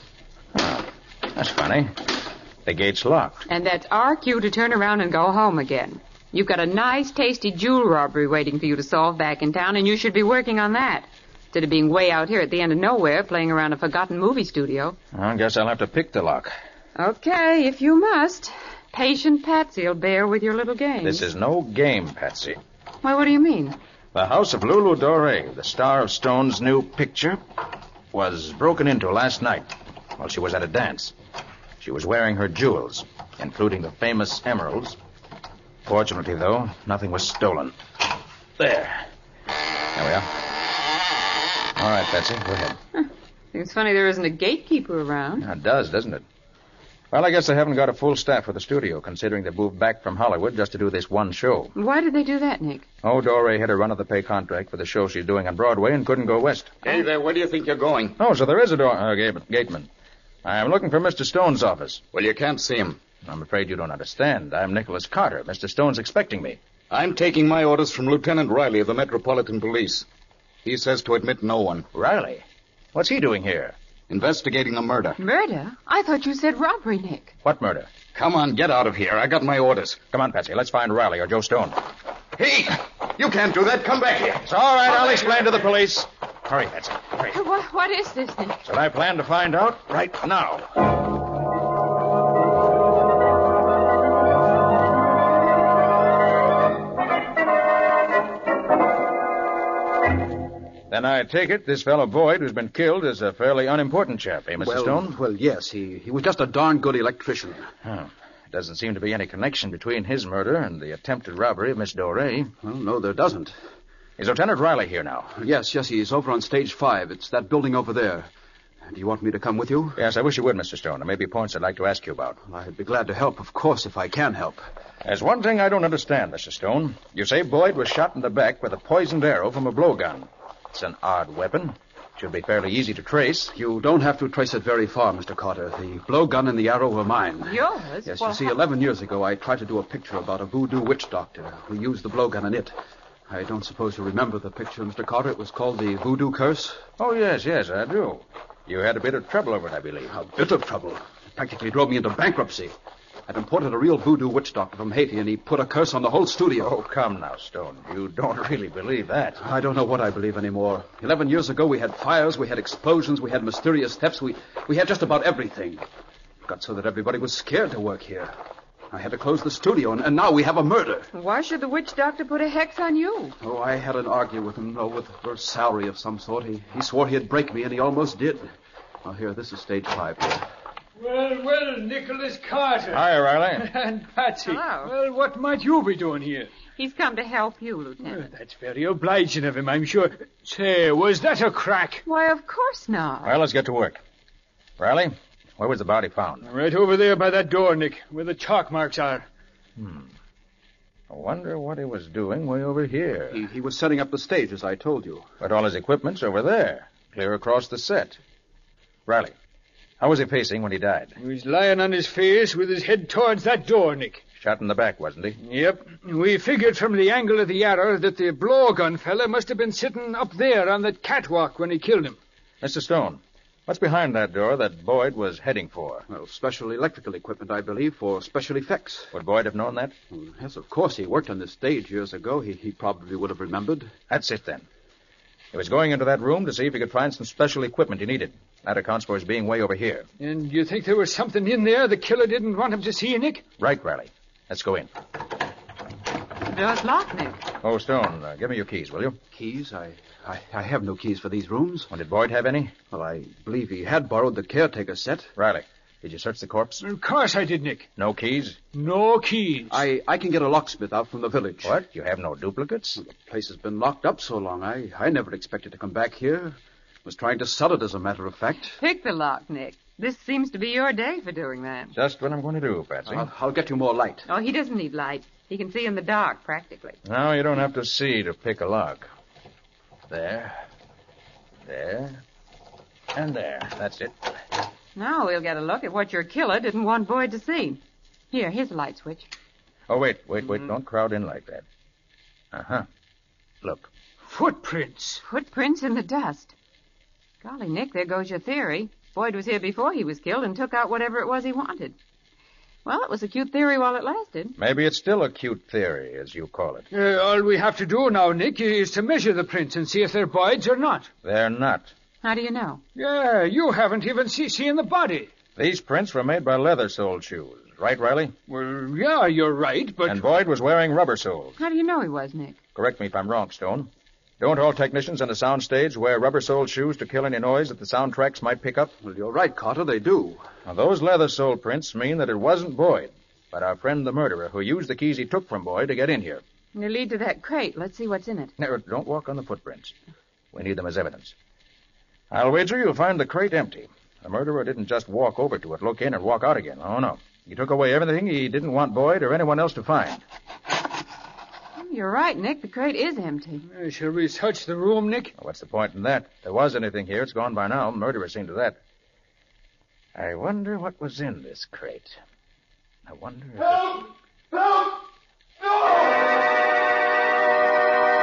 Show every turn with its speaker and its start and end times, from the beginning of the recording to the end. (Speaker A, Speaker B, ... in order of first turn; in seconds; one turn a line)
Speaker A: 0.5-2.1
Speaker A: 2.6-3.5
Speaker B: 3.5-15.0
Speaker A: 15.1-16.5
Speaker B: 17.0-21.3
Speaker A: 21.0-22.6
Speaker B: 23.0-23.8
Speaker A: 24.1-27.4
Speaker A: 28.1-31.1
Speaker A: 31.8-35.0
Speaker A: 35.9-37.8
Speaker A: 38.6-39.1
Speaker A: 39.9-40.4
Speaker A: 41.8-42.8
Speaker B: 42.9-45.5
Speaker A: 45.4-46.2
Speaker A: 47.1-51.7
Speaker B: 51.8-52.9
Speaker A: 53.0-56.8
Speaker C: 56.8-58.2
Speaker A: 58.2-59.9
Speaker A: 60.4-62.0
Speaker C: 62.1-63.0
Speaker A: 63.2-66.6
Speaker C: 66.9-70.0
Speaker C: 70.7-71.9
Speaker A: 71.9-73.8
Speaker C: 74.1-75.2
Speaker B: 75.2-77.3
Speaker A: 77.4-77.9
Speaker C: 78.1-80.0
Speaker A: 80.1-81.8
Speaker C: 82.4-84.4
Speaker A: 84.4-87.4
Speaker B: 87.3-88.6
Speaker A: 88.6-90.7
Speaker A: 100.9-105.2
Speaker D: 104.6-107.7
Speaker A: 107.8-112.5
Speaker D: 112.6-113.5
Speaker A: 114.2-115.4
Speaker D: 115.4-118.3
Speaker D: 118.9-120.0
Speaker A: 120.0-122.4
Speaker D: 122.5-124.6
Speaker A: 125.0-133.5
Speaker D: 133.6-142.7
Speaker B: 137.4-138.6
Speaker D: 143.3-146.8
Speaker A: 147.0-150.2
Speaker D: 150.1-152.7
Speaker D: 153.3-156.8
Speaker A: 156.6-159.4
Speaker D: 159.4-165.8
Speaker D: 166.5-168.3
Speaker D: 168.9-171.1
Speaker B: 171.1-173.3
Speaker D: 173.4-178.5
Speaker D: 179.0-180.5
Speaker E: 181.0-183.1
Speaker A: 182.9-183.7
Speaker E: 183.6-186.5
Speaker B: 184.4-184.9
Speaker B: 186.8-188.3
Speaker E: 188.0-192.0
Speaker B: 192.1-193.3
Speaker A: 193.2-194.0
Speaker A: 194.8-196.5
Speaker E: 196.4-199.3
Speaker A: 199.8-200.1
Speaker A: 201.1-203.4
Speaker D: 203.3-205.3
Speaker A: 205.4-208.2
Speaker A: 209.1-209.3
Speaker A: 210.0-211.2
Speaker E: 211.2-214.2
Speaker A: 214.4-215.4
Speaker E: 215.4-222.2
Speaker A: 222.6-226.1
Speaker D: 226.1-229.1
Speaker A: 229.1-229.9
Speaker D: 230.1-233.9
Speaker A: 234.1-234.7
Speaker A: 235.5-240.1
Speaker E: 240.2-243.4
Speaker A: 243.6-244.9
Speaker B: 246.5-247.4
Speaker A: 247.6-249.2
Speaker D: 249.3-251.9
Speaker A: 251.9-252.7
Speaker D: 252.9-255.3
Speaker A: 255.4-256.8
Speaker E: 256.8-257.9
Speaker A: 258.0-258.6
Speaker E: 258.7-259.8
Speaker D: 259.7-261.8
Speaker A: 261.6-263.0
Speaker D: 263.0-268.8
Speaker B: 268.8-271.9
Speaker A: 271.9-273.3
Speaker D: 273.1-274.3
Speaker B: 274.3-277.0
Speaker A: 277.1-279.1
Speaker A: 280.1-280.6
Speaker A: 281.6-282.2
Speaker A: 283.1-284.3
Speaker B: 285.0-287.8
Speaker B: 288.3-289.3
Speaker A: 289.9-291.6
Speaker A: 292.5-292.9
Speaker A: 293.6-293.9
Speaker E: 294.2-295.2
Speaker B: 295.2-296.6
Speaker B: 297.4-302.0
Speaker B: 302.9-304.6
Speaker A: 304.6-306.9
Speaker E: 306.9-311.1
Speaker A: 311.2-311.9
Speaker B: 312.2-312.8
Speaker E: 313.0-315.3
Speaker A: 315.6-318.4
Speaker E: 318.5-320.2
Speaker A: 320.0-321.6
Speaker B: 321.6-322.6
Speaker A: 322.8-328.9
Speaker D: 329.0-330.4
Speaker A: 330.6-336.4
Speaker B: 336.8-338.5
Speaker A: 338.6-339.9
Speaker A: 340.5-341.4
Speaker A: 342.3-350.2
Speaker B: 351.8-353.6
Speaker E: 353.6-355.3
Speaker A: 355.4-358.8
Speaker A: 360.1-362.2
Speaker A: 363.1-363.9